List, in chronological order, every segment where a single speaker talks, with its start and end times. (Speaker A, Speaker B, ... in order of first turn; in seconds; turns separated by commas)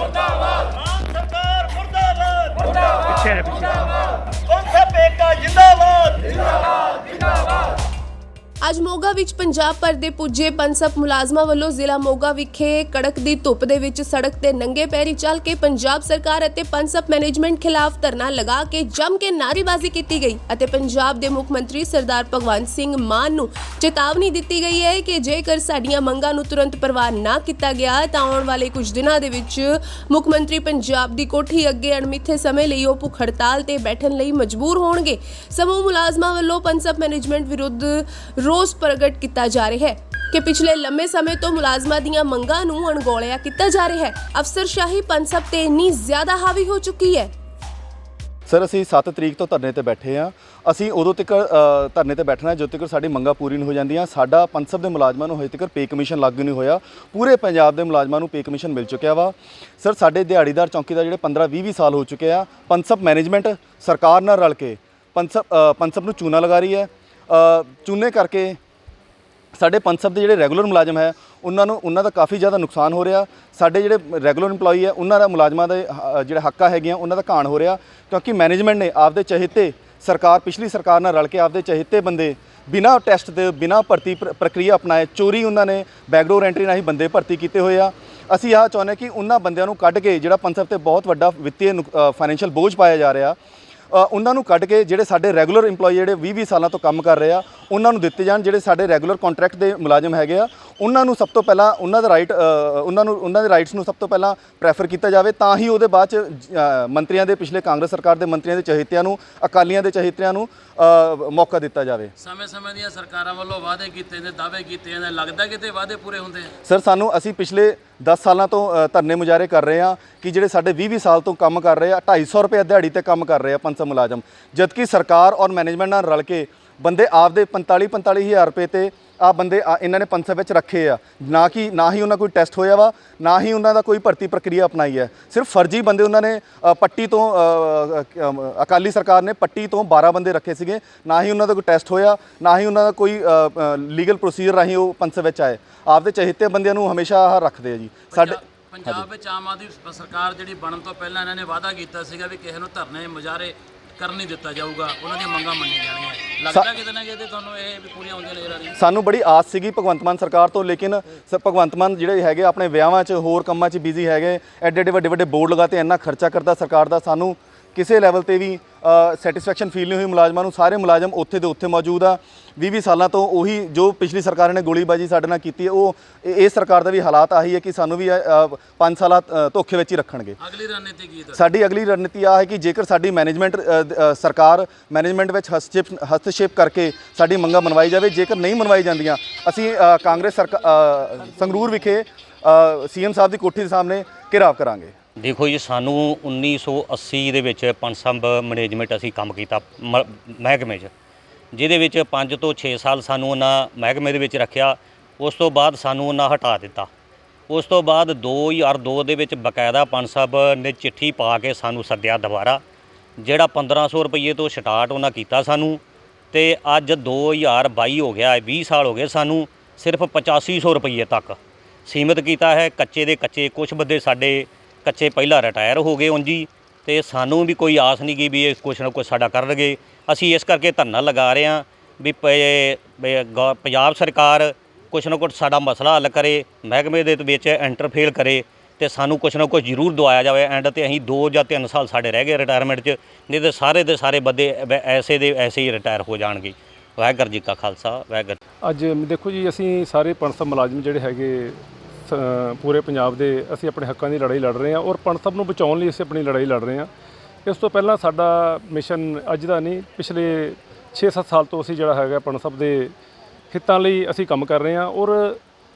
Speaker A: 0.7-3.6, Speaker A: 4.6-6.3, Speaker B: 8.6-47.3, Speaker C: 48.5-68.6, Speaker C: 69.5-93.4, Speaker C: 93.9-112.1, Speaker D: 112.2-116.5, Speaker C: 116.7-149.0, Speaker D: 148.1-158.8, Speaker C: 158.8-180.4, Speaker D: 180.4-181.4, Speaker C: 181.3-194.9, Speaker E: 195.2-200.9, Speaker E: 201.5-206.9, Speaker E: 207.5-212.6, Speaker E: 213.2-248.4, Speaker F: 248.6-256.9, Speaker F: 257.4-262.9, Speaker F: 263.5-265.4